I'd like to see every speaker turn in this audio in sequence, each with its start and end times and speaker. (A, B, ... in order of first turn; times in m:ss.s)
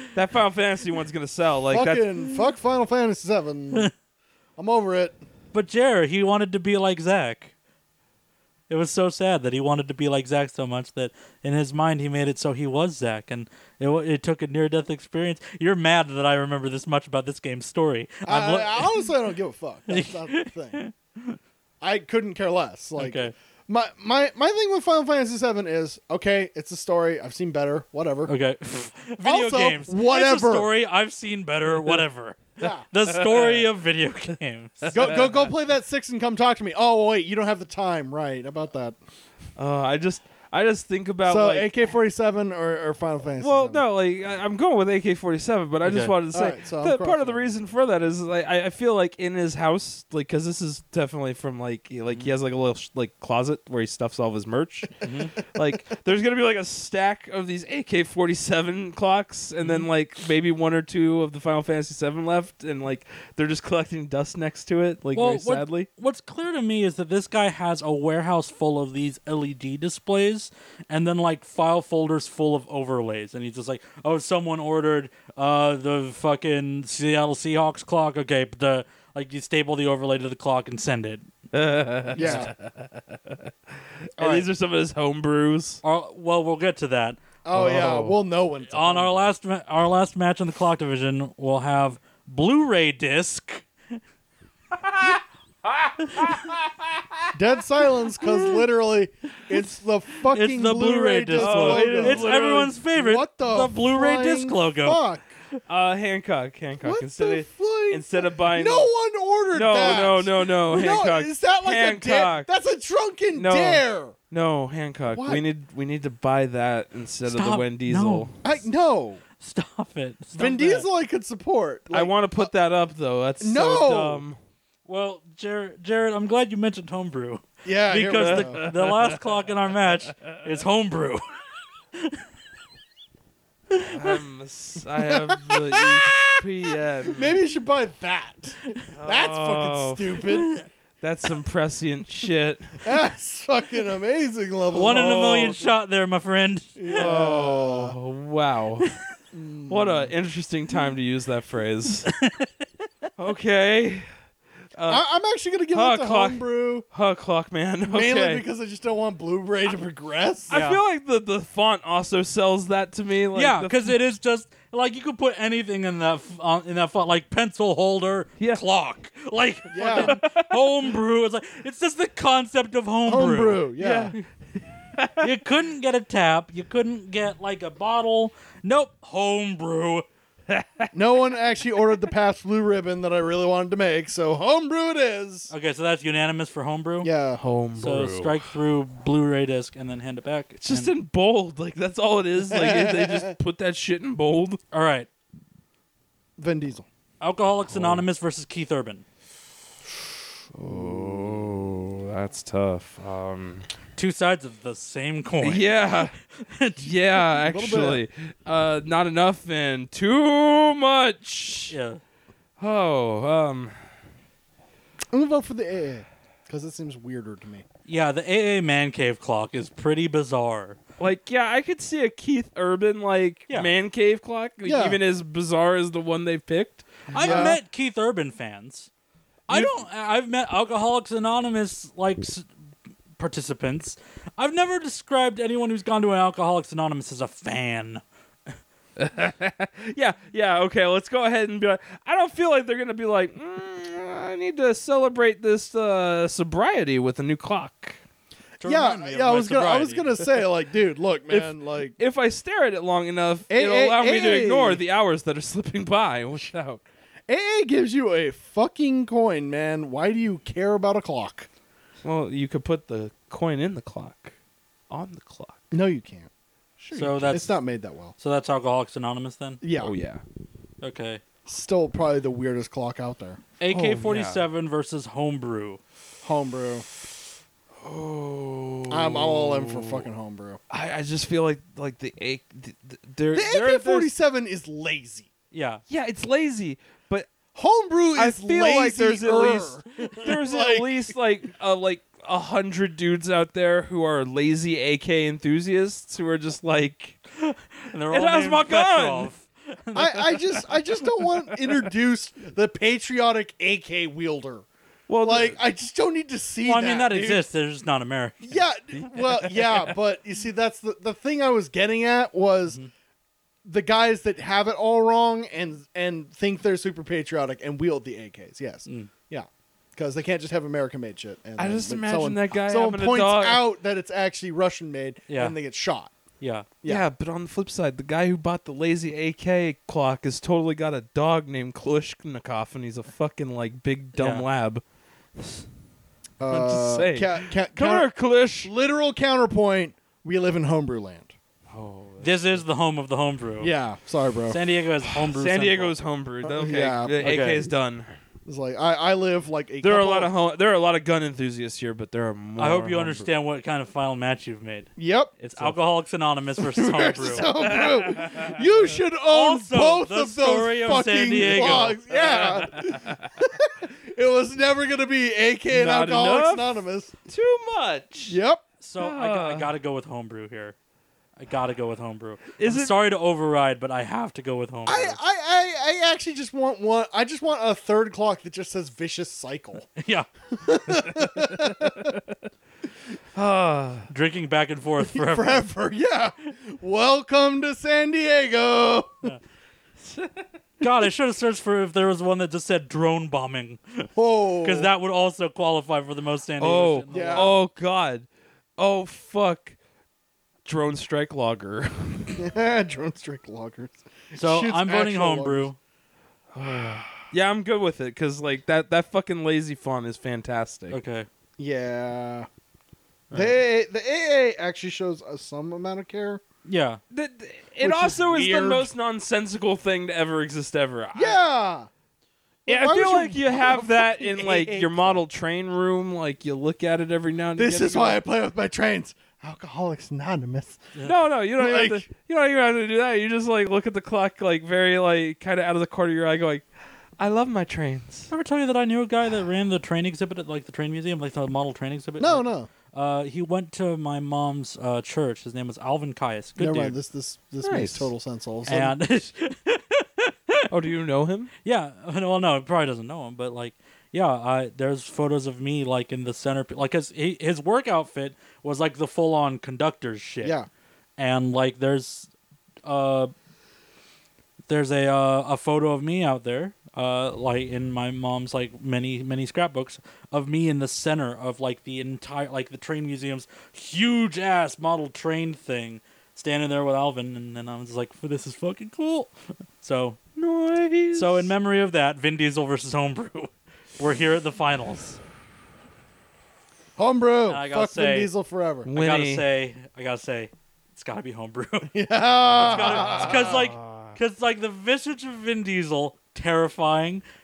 0:00.1-0:02.0 A
0:01.7-0:03.9 B
0:04.6-0:05.2 B
0:05.5-0:07.5 C
0:08.7-0:19.1 C
0:18.2-0:20.8 B
0:19.9-0:21.4 C
0:21.8-0:28.3 B
0:23.0-0:23.3 C
0:28.3-0:35.1 C
0:29.2-0:30.7 B
0:32.6-0:32.8 B
0:33.2-0:33.6 A
0:34.9-0:39.0 B
0:39.6-0:41.7 A
0:41.2-0:43.8 B
0:43.4-1:05.9 A
0:45.8-0:46.1 C
0:46.3-0:47.5 B
0:55.0-0:55.3 C
1:05.1-1:21.3 C
1:21.5-1:25.8 A
1:22.1-1:22.5 B
1:22.2-1:22.5 C
1:24.2-1:24.5 C
1:25.8-1:27.2 C
1:27.4-1:29.3 B
1:27.5-1:28.2 A
1:28.7-1:33.7 C
1:34.8-1:37.3 A
1:36.0-1:36.3 C
1:37.3-1:42.3 B
1:40.3-1:45.0 C
1:41.4-1:42.7 A
1:42.9-1:45.3 B
1:45.7-1:48.9 A
1:46.8-1:54.1 B
1:49.5-1:52.5 A
1:53.3-1:58.3 A
1:55.1-1:55.4 B
1:57.2-1:58.4 C
1:58.4-1:59.2 B
1:59.4-2:00.9 C
2:00.3-2:02.5 B
2:01.9-2:04.4 A
2:03.4-2:04.2 B
2:04.8-2:11.2 C
2:07.6-2:08.6 B
2:08.2-2:09.2 A
2:10.1-2:10.4 A
2:12.0-2:12.2 C
2:13.7-2:14.1 C
2:13.8-2:17.3 A
2:15.0-2:16.4 B
2:17.0-2:20.5 B
2:18.9-2:20.3 A
2:20.4-2:20.6 C
2:21.0-2:22.9 A
2:22.8-2:25.6 B
2:24.7-2:27.0 C
2:24.9-2:25.6 A
2:26.8-2:27.9 B
2:26.9-2:28.9 A
2:29.3-2:30.1 B
2:29.7-2:32.1 A
2:32.0-2:32.6 C
2:33.2-2:34.1 A
2:34.8-2:35.0 A
2:34.9-2:36.8 B
2:35.7-2:38.4 A
2:37.9-2:40.5 B
2:40.5-2:44.0 A
2:40.5-2:40.8 C
2:43.3-2:54.2 C
2:49.7-2:50.2 B
2:49.9-2:50.6 A
2:53.0-2:54.2 B
2:53.8-2:54.2 A
2:54.9-2:55.3 A
2:55.2-3:00.0 C
3:00.5-3:00.9 A
3:00.9-3:05.5 B
3:05.5-3:07.1 C
3:07.0-3:07.4 B
3:07.4-3:08.4 A
3:07.8-3:10.9 C
3:10.6-3:14.6 A
3:12.5-3:13.3 B
3:14.7-3:15.1 C
3:16.4-3:16.8 B
3:17.2-3:19.0 C
3:17.7-3:18.0 A
3:20.5-3:23.7 A
3:20.6-3:21.4 B
3:24.0-3:26.9 C
3:25.4-3:26.1 A
3:26.8-3:31.7 A
3:27.4-3:28.0 B
3:31.7-3:32.0 C
3:32.6-3:33.8 A
3:35.1-3:37.6 B
3:37.9-3:40.8 C
3:41.0-3:47.5 A
3:44.6-3:45.0 B
3:47.1-3:48.9 C
3:47.1-3:47.6 B
3:49.5-3:52.5 C
3:53.2-3:58.0 C
3:59.0-4:08.0 A
4:08.6-4:10.1 C
4:08.6-4:11.9 B
4:11.3-4:16.8 A
4:13.5-4:14.8 B
4:17.3-4:21.5 B
4:22.0-4:24.3 A
4:24.9-4:25.6 A
4:25.7-4:28.1 B
4:26.9-4:27.6 C
4:28.2-4:29.6 C
4:29.6-4:29.9 B
4:29.8-4:30.2 A
4:30.8-4:31.2 C
4:31.4-4:34.0 B
4:33.6-4:35.8 C
4:33.8-4:34.4 A
4:36.2-4:36.8 B
4:37.8-4:40.1 A
4:38.9-4:40.6 B
4:40.7-4:44.1 A
4:43.3-4:45.3 B
4:45.5-4:45.8 C
4:45.9-4:47.3 A
4:47.5-4:51.1 B
4:48.2-4:57.2 A
4:50.0-4:50.3 C
4:57.4-5:00.6 C
4:58.1-4:59.3 A
4:59.9-5:04.6 B
5:01.3-5:01.6 A
5:05.1-5:05.6 A
5:05.2-5:07.4 B
5:06.6-5:08.6 C
5:08.4-5:12.8 B
5:09.1-5:09.9 A
5:13.6-5:26.1 B
5:18.8-5:19.1 C
5:21.6-5:23.7 A
5:25.3-5:25.6 C
5:26.4-5:26.7 C
5:26.8-5:34.8 A
5:34.2-5:34.4 C
5:35.4-5:35.6 A
5:36.4-5:38.1 B
5:36.4-5:38.7 A
5:38.6-5:41.3 B
5:41.7-5:42.6 A
5:42.2-5:43.7 C
5:43.6-5:44.6 B
5:44.5-5:45.9 C
5:45.0-5:48.1 A
5:46.4-5:47.2 B
5:47.2-5:47.7 C
5:48.4-5:50.3 B
5:49.8-5:53.3 A
5:52.6-5:54.9 C
5:55.0-5:55.3 B
5:55.4-5:55.8 A
5:55.5-5:57.8 C
5:56.6-6:07.1 B
5:57.4-5:58.7 A
5:59.2-6:02.0 C
6:01.3-6:03.3 A
6:05.7-6:08.4 A
6:08.3-6:08.6 B
6:08.8-6:10.8 C
6:09.0-6:09.7 A
6:11.4-6:15.2 C
6:12.6-6:12.9 A
6:14.8-6:19.9 B
6:20.0-6:20.3 C
6:20.5-6:22.2 B
6:23.3-6:24.1 A
6:24.1-6:25.7 C
6:25.0-6:29.3 B
6:30.0-6:30.4 A
6:30.8-6:37.6 C
6:34.2-6:34.9 B
6:36.6-6:38.3 A
6:37.1-6:37.6 B
6:38.8-6:39.8 A
6:40.6-6:42.4 A
6:42.4-6:45.7 B
6:44.3-6:45.8 C
6:46.5-6:51.0 A
6:46.6-6:47.1 B
6:50.9-6:51.3 C
6:51.6-6:52.5 B
6:53.3-6:56.4 B
6:56.6-6:57.0 C
6:57.1-7:01.4 A
6:57.8-6:58.9 B
7:01.1-7:01.9 B
7:02.6-7:05.2 B
7:02.7-7:08.2 A
7:07.6-7:10.9 B
7:11.0-7:16.6 A
7:11.6-7:12.1 B
7:17.2-7:18.3 A
7:18.3-7:27.0 C
7:22.2-7:22.7 B
7:26.6-7:29.0 B
7:27.6-7:28.1 A
7:28.6-7:30.7 C
7:30.7-7:31.5 A
7:31.6-7:40.5 C
7:40.4-7:40.7 B
7:41.2-7:42.3 C
7:42.8-7:43.3 C
7:44.7-8:00.2 C
8:00.4-8:01.5 A
8:01.1-8:05.2 C
8:07.0-8:08.9 B
8:07.5-8:08.3 C
8:08.8-8:09.4 A
8:08.9-8:11.9 C
8:11.9-8:13.4 B
8:12.6-8:17.2 C
8:12.8-8:14.2 A